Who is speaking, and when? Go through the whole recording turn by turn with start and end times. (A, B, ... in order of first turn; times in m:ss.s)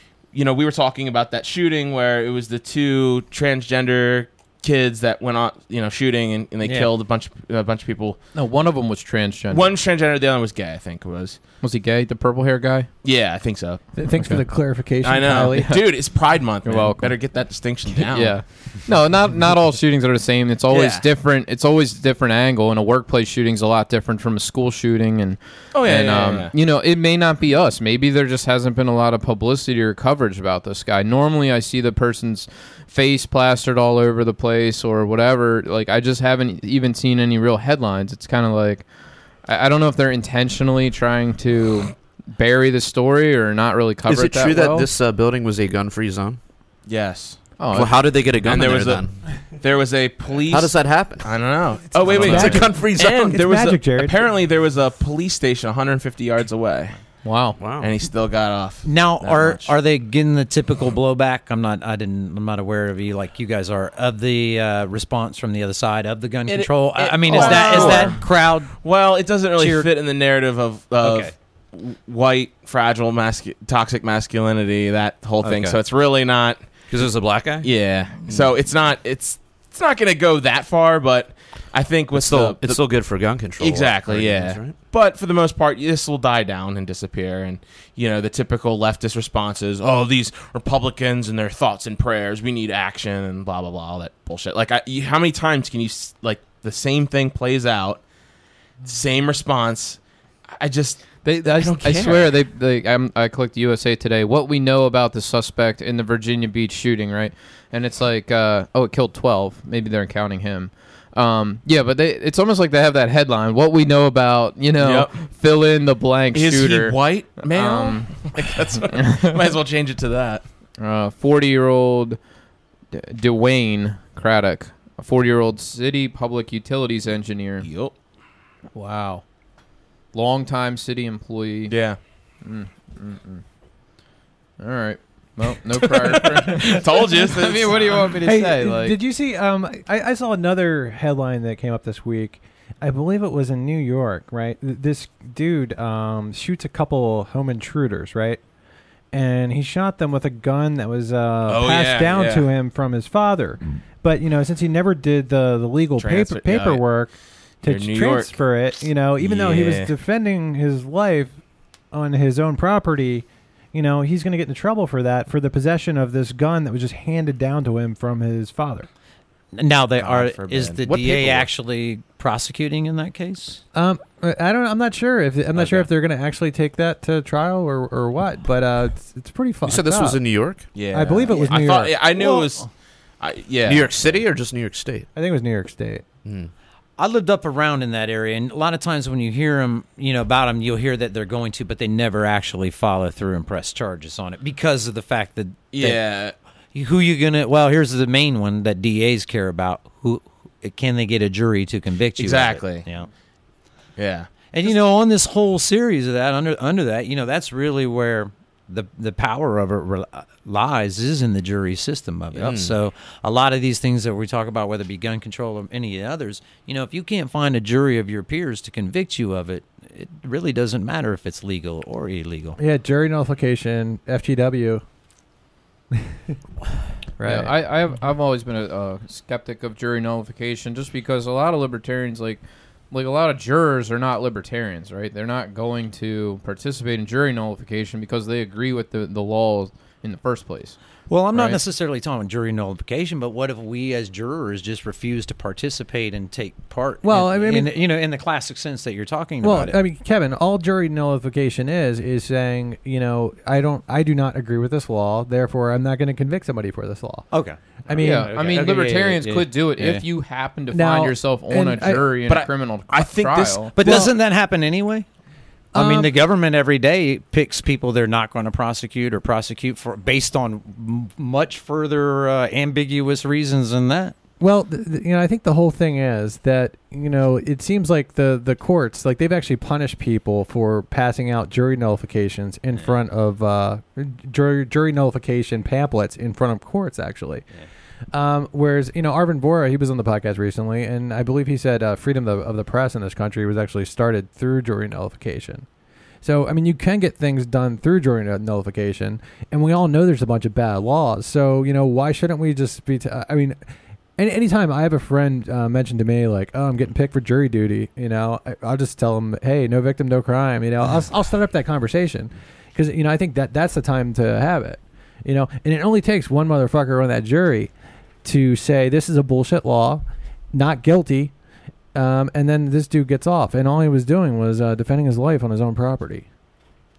0:00.3-0:08.2 A
0:06.6-0:06.9 B
0:08.3-0:09.7 C
0:09.5-0:11.4 A
0:11.6-0:12.9 C
0:13.0-0:13.8 A
0:14.0-0:15.7 D
0:14.2-0:14.4 C
0:15.0-0:18.4 A
0:15.6-0:16.0 C
0:16.6-0:17.2 C
0:18.0-0:38.9 C
0:20.7-0:21.0 A
0:25.7-0:26.5 A
0:39.4-0:44.9 C
0:44.1-0:46.4 E
0:46.9-0:47.4 A
0:47.6-0:47.9 C
0:47.7-0:49.1 E
0:48.4-0:49.0 A
0:49.6-0:57.0 A
0:50.5-0:51.3 E
0:51.9-0:53.3 E
0:52.1-0:54.2 D
0:57.2-0:57.6 C
0:57.6-0:57.9 E
0:57.8-0:59.7 A
0:58.8-1:08.7 B
1:06.5-1:08.2 A
1:07.3-1:07.6 D
1:08.8-1:16.6 A
1:09.6-1:09.9 B
1:11.0-1:11.3 B
1:15.4-1:15.8 E
1:16.9-1:17.7 E
1:17.6-1:22.8 A
1:22.1-1:24.8 E
1:23.6-1:38.0 A
1:38.8-1:40.0 A
1:40.6-1:42.3 A
1:41.2-1:59.3 C
1:54.8-1:55.1 A
1:56.3-2:00.4 A
2:00.8-2:02.2 C
2:02.9-2:07.6 C
2:07.6-2:07.9 A
2:08.7-2:09.2 C
2:10.1-2:11.8 C
2:11.7-2:12.0 A
2:12.4-2:13.4 C
2:14.6-2:19.0 C
2:16.0-2:18.1 A
2:18.2-2:28.4 D
2:29.1-2:37.1 D
2:31.4-2:32.5 A
2:36.0-2:36.8 A
2:37.6-2:41.4 D
2:37.6-2:38.4 A
2:39.2-2:39.9 A
2:41.9-2:48.9 D
2:49.5-2:53.6 B
2:50.0-2:50.8 A
2:50.8-2:51.5 E
2:53.7-3:00.2 D
2:55.6-2:55.9 B
2:59.6-3:00.7 E
3:00.7-3:02.7 A
3:00.9-3:02.5 D
3:03.2-3:03.9 A
3:03.6-3:05.1 E
3:05.1-3:06.0 D
3:06.2-3:06.5 E
3:07.0-3:23.1 B
3:15.7-3:16.4 A
3:22.2-3:22.9 A
3:24.0-3:24.7 A
3:24.5-3:42.6 B
3:32.3-3:32.7 E
3:42.6-3:44.8 D
3:47.2-3:47.5 D
3:47.2-4:01.6 C
4:01.1-4:09.8 B
4:07.0-4:07.8 D
4:09.4-4:17.3 D
4:17.3-4:20.0 B
4:17.9-4:18.3 D
4:18.0-4:23.8 C
4:20.7-4:22.1 D
4:22.3-4:24.0 A
4:23.7-4:25.0 B
4:23.8-4:24.1 D
4:25.7-4:26.1 D
4:25.7-4:34.1 B
4:34.4-4:47.5 D
4:48.1-4:55.7 D
4:56.2-5:03.6 D
5:04.2-5:17.7 D
5:18.2-5:21.3 D
5:21.9-5:26.2 D